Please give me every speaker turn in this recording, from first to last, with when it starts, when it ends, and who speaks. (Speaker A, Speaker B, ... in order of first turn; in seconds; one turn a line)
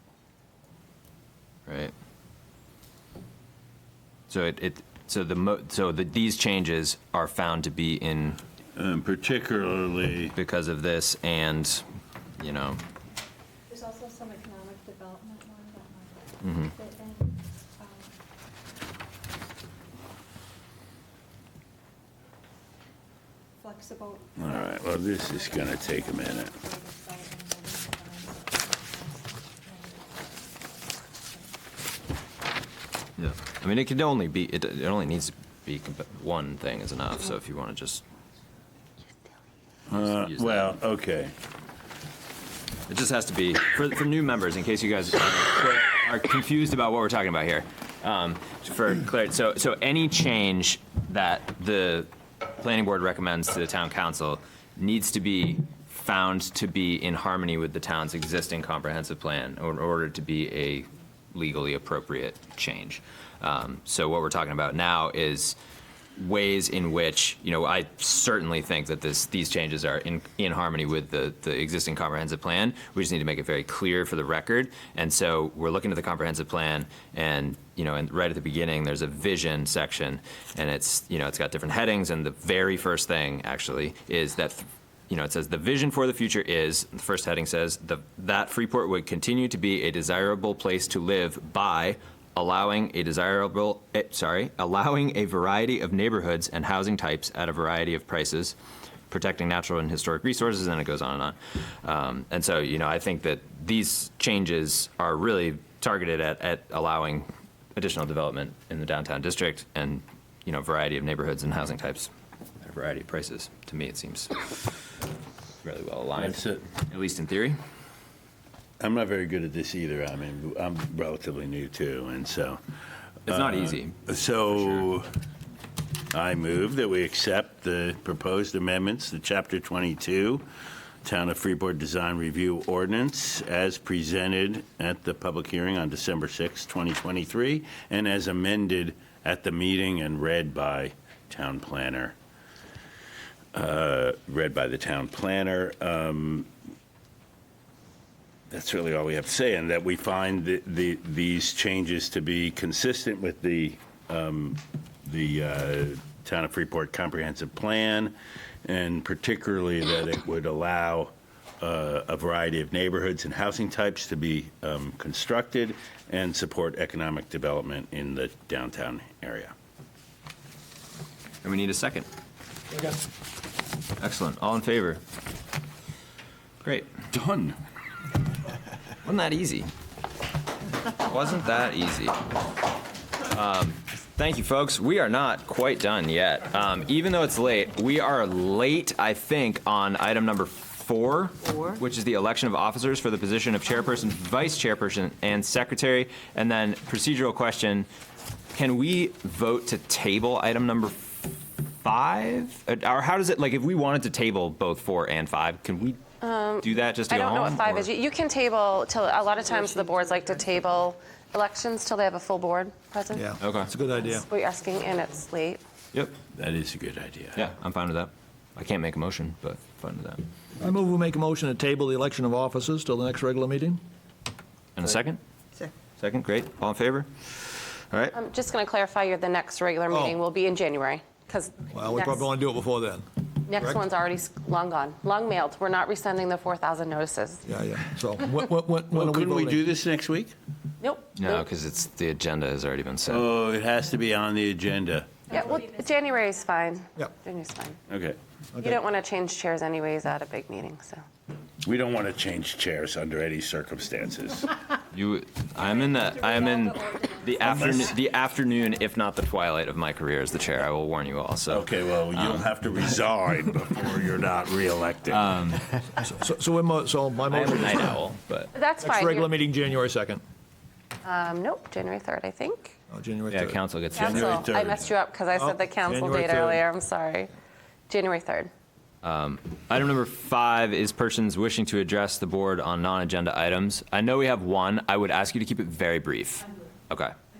Speaker A: 1.7-1.9
Speaker A: 4.3-8.4
Speaker B: 8.7-10.3
Speaker A: 10.3-11.8
Speaker A: 12.4-12.8
Speaker C: 13.7-18.1
Speaker A: 16.4-16.7
Speaker C: 23.6-31.5
Speaker B: 24.4-26.5
Speaker A: 33.2-38.0
Speaker B: 39.9-41.3
Speaker A: 40.0-40.7
Speaker A: 42.9-65.5
Speaker A: 66.2-98.5
Speaker A: 99.1-112.1
Speaker A: 112.6-114.7
Speaker A: 115.6-117.6
Speaker B: 116.2-116.6
Speaker B: 118.8-122.6
Speaker A: 123.3-124.8
Speaker B: 123.3-125.1
Speaker B: 126.1-130.4
Speaker B: 131.0-142.2
Speaker B: 143.5-146.5
Speaker B: 148.5-158.1
Speaker B: 158.6-169.5
Speaker A: 171.4-172.1
Speaker A: 174.0-175.0
Speaker A: 176.6-176.9
Speaker B: 177.1-177.6
Speaker A: 179.0-179.7
Speaker A: 181.0-182.2
Speaker A: 183.3-197.9
Speaker A: 198.5-206.0
Speaker D: 206.2-213.3
Speaker A: 206.6-207.9
Speaker E: 213.1-214.2
Speaker A: 213.4-213.7
Speaker D: 214.0-215.6
Speaker B: 216.3-217.4
Speaker A: 217.3-220.2
Speaker E: 220.6-223.8
Speaker A: 224.8-225.2
Speaker A: 226.0-228.1
Speaker D: 228.1-232.2
Speaker E: 229.9-230.1
Speaker E: 231.7-233.8
Speaker D: 233.4-237.4
Speaker E: 237.4-239.7
Speaker B: 238.9-240.3
Speaker D: 240.8-241.4
Speaker A: 241.2-243.3
Speaker B: 243.1-245.3
Speaker C: 245.3-246.1
Speaker D: 245.3-247.8
Speaker B: 247.9-248.2
Speaker D: 248.6-251.0
Speaker B: 251.6-254.6
Speaker A: 254.9-262.5
Speaker C: 255.7-257.9
Speaker B: 257.4-257.9
Speaker B: 261.5-265.3
Speaker A: 265.1-265.8
Speaker E: 266.0-268.0
Speaker A: 267.3-268.5
Speaker D: 268.5-269.3
Speaker E: 268.8-270.2
Speaker D: 271.0-272.8
Speaker E: 272.9-273.6
Speaker A: 273.3-274.4
Speaker D: 273.9-277.3
Speaker B: 274.0-274.9
Speaker E: 275.3-276.6
Speaker D: 277.9-278.5
Speaker A: 279.0-287.1